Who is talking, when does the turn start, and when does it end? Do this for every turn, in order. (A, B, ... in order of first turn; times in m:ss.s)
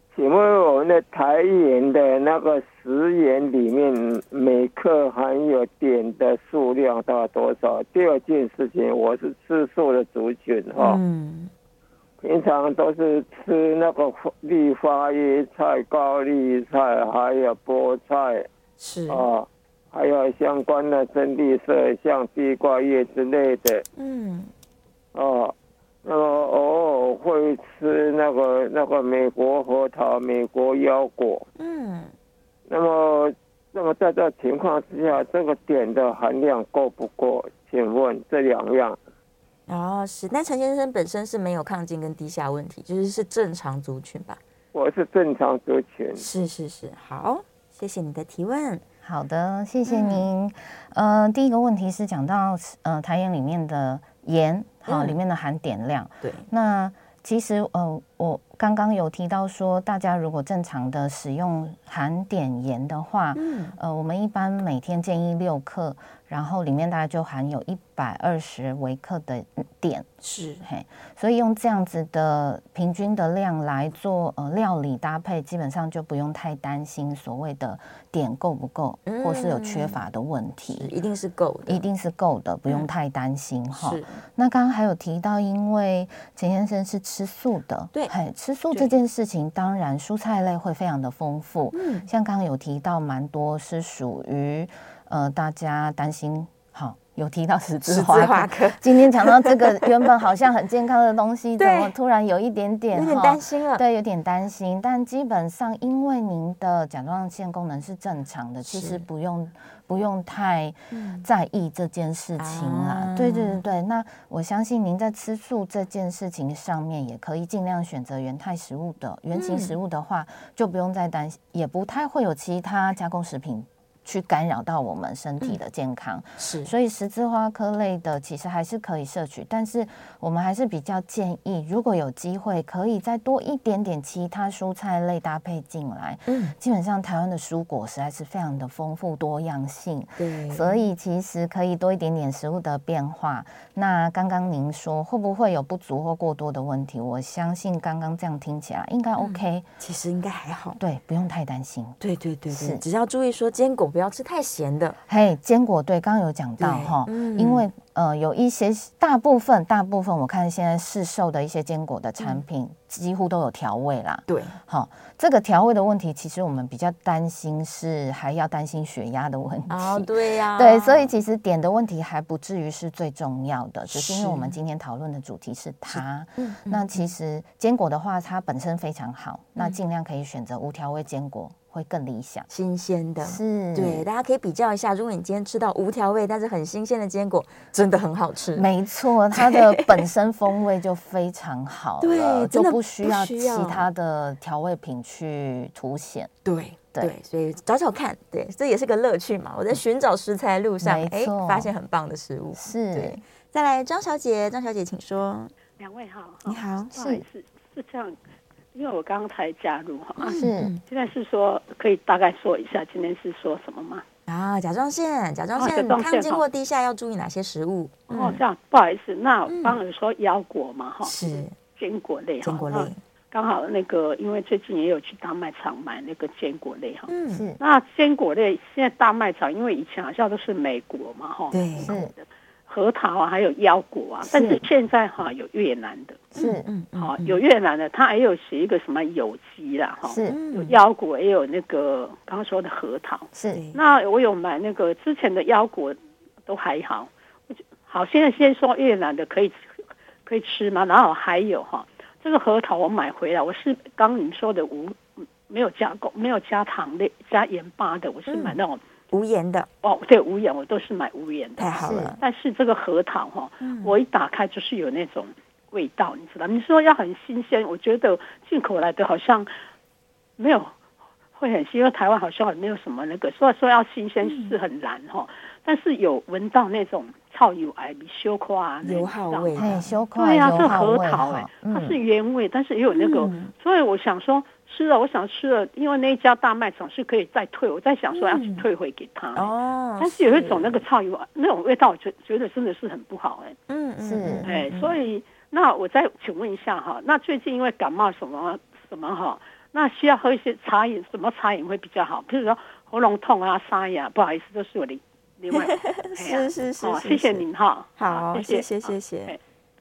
0:00.1-0:11.0 A
0:10.8-0:11.5 B
0:12.2-0:18.5 A
0:18.8-0:19.2 B
0:19.1-0:23.8 A
0:24.0-0:24.5 B
0:25.1-0:31.4 A
0:31.6-0:32.1 B
0:32.7-0:39.0 A
0:39.7-0:44.4 B
0:44.7-0:46.2 A
0:46.2-0:48.8 B
0:49.0-1:10.1 C
0:49.8-0:50.3 B
0:54.9-0:55.2 B
0:56.2-0:56.5 B
1:03.4-1:03.8 B
1:10.2-1:10.7 B
1:10.6-1:20.9 C
1:19.1-1:20.0 B
1:20.7-1:21.9 B
1:21.7-2:29.7 C
1:23.7-1:24.2 B
1:31.7-1:32.1 B
1:37.8-1:40.1 B
1:41.6-1:42.0 B
1:42.9-1:43.8 B
1:48.6-1:49.1 B
1:50.9-1:51.3 B
1:52.4-1:53.6 B
1:59.3-1:59.7 B
2:06.4-2:06.7 B
2:16.3-2:16.6 B
2:20.2-2:20.8 B
2:29.2-2:30.8 B
2:30.8-2:32.8 C
2:32.0-2:35.0 B
2:35.1-3:02.5 C
2:36.6-2:37.7 B
2:44.3-2:44.6 B
2:49.7-2:51.1 B
2:53.9-2:54.6 B
2:55.9-2:57.1 B
3:02.5-3:08.7 B
3:03.2-3:04.1 C
3:08.6-3:16.3 C
3:09.4-3:10.1 B
3:12.0-3:13.9 B
3:16.4-3:25.5 B
3:20.8-3:21.7 C
3:22.6-3:23.2 C
3:25.8-3:28.2 D
3:26.5-3:26.9 B
3:26.9-3:27.2 C
3:28.7-3:34.0 D
3:30.2-3:30.8 B
3:30.3-3:30.7 C
3:34.3-3:38.4 B
3:35.6-3:36.5 D
3:38.1-3:41.2 D
3:39.5-3:39.8 B
3:41.0-3:41.6 B
3:41.8-3:56.3 D
3:42.4-3:43.0 B
3:47.1-3:47.4 B
3:47.3-3:47.6 C
3:51.5-3:52.0 B
3:51.8-3:52.1 C
3:54.2-3:54.6 C
3:56.3-3:56.7 C
3:56.4-3:57.4 B
3:57.0-4:09.7 D
4:00.0-4:00.4 C
4:00.3-4:00.8 B
4:03.3-4:03.6 C
4:03.5-4:03.8 B
4:10.3-4:18.8 D
4:18.3-4:18.6 B
4:19.1-4:19.7 B
4:19.8-4:29.5 D
4:21.6-4:22.2 B
4:21.8-4:22.2 C
4:23.6-4:24.0 B
4:30.4-4:30.7 D
4:31.4-4:39.6 D
4:34.2-4:34.6 B
4:38.8-4:39.9 B
4:39.6-4:41.5 C
4:40.2-4:53.6 D
4:41.6-4:42.0 B
4:42.9-4:43.5 B
4:48.1-4:48.6 B
4:49.4-4:50.8 B
4:53.7-4:55.0 B
4:54.0-4:54.6 C
4:54.4-5:09.4 D
5:05.5-5:07.4 B
5:08.0-5:09.4 B